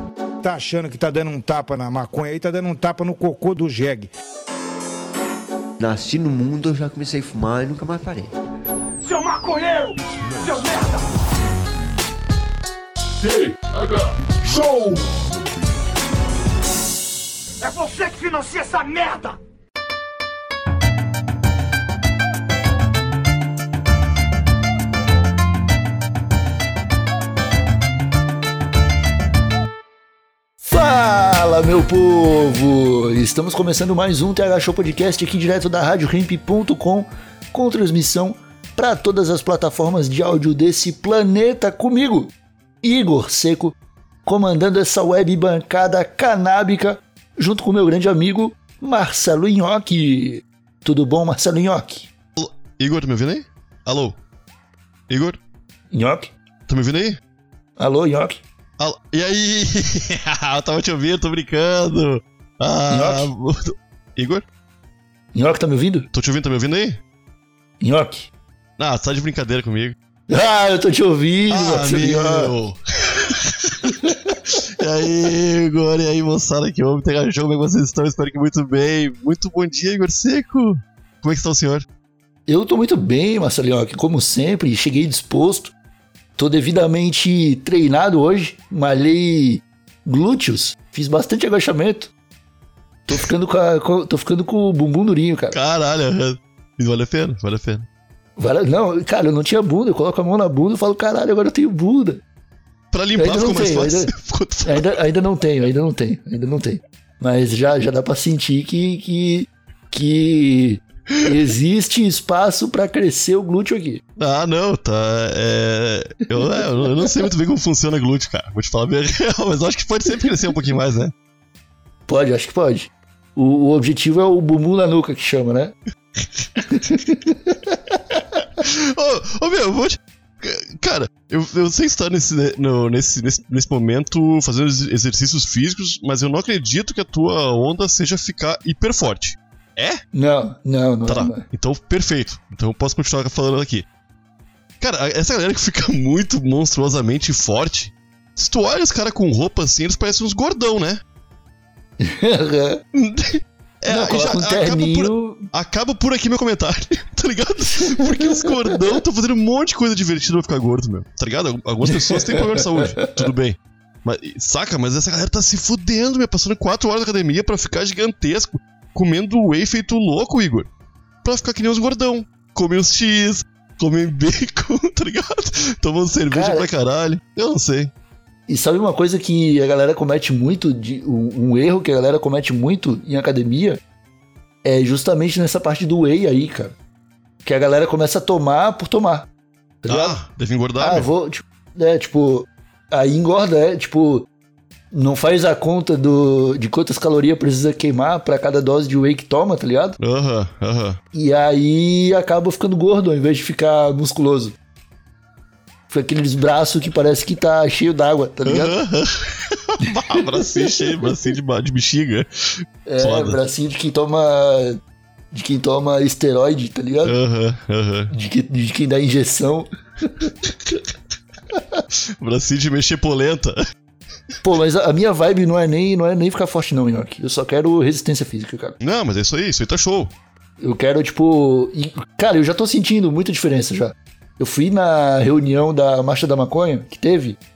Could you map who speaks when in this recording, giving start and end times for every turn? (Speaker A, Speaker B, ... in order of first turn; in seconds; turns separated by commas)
Speaker A: 0.4-4.1, Speaker B: 5.8-8.3, Speaker C: 9.0-11.1, Speaker C: 13.2-15.5, Speaker C: 17.6-19.4, Speaker D: 30.6-52.1, Speaker E: 52.4-54.2, Speaker E: 55.1-55.4, Speaker D: 55.9-56.3, Speaker E: 56.7-57.2, Speaker D: 57.8-58.4, Speaker E: 58.8-64.5, Speaker D: 62.9-63.3, Speaker D: 65.3-66.1, Speaker E: 66.1-67.0, Speaker D: 67.8-68.3, Speaker E: 68.8-70.0, Speaker D: 70.3-72.5, Speaker E: 71.5-81.9, Speaker D: 74.0-74.3, Speaker D: 82.5-85.7, Speaker D: 86.4-92.1, Speaker D: 93.1-95.6, Speaker E: 95.5-97.9, Speaker D: 98.4-102.2, Speaker E: 102.9-105.0, Speaker D: 103.2-104.1, Speaker D: 104.7-114.0, Speaker E: 114.2-121.1, Speaker D: 116.4-117.1, Speaker D: 122.1-125.7, Speaker E: 126.2-126.6, Speaker D: 126.7-127.8, Speaker E: 128.4-140.0, Speaker D: 140.1-141.5, Speaker E: 141.1-143.9, Speaker E: 144.8-151.0, Speaker D: 152.0-152.8, Speaker E: 152.9-170.7, Speaker D: 153.9-155.5, Speaker D: 157.8-159.0, Speaker D: 161.8-163.3, Speaker E: 171.2-177.9, Speaker D: 176.3-176.7, Speaker D: 178.5-183.8, Speaker D: 184.6-186.8, Speaker D: 187.4-189.3, Speaker D: 189.8-190.2, Speaker E: 189.9-191.1, Speaker D: 190.8-194.3, Speaker D: 194.9-200.0, Speaker E: 200.0-201.0, Speaker D: 201.1-204.6, Speaker D: 205.9-208.8, Speaker E: 208.5-213.4, Speaker D: 210.2-211.0, Speaker D: 212.9-214.8, Speaker D: 215.3-217.1, Speaker E: 217.1-218.1, Speaker D: 218.1-220.3, Speaker D: 221.6-221.8, Speaker E: 222.2-223.6, Speaker D: 224.4-228.8, Speaker E: 228.8-230.2, Speaker D: 230.6-237.4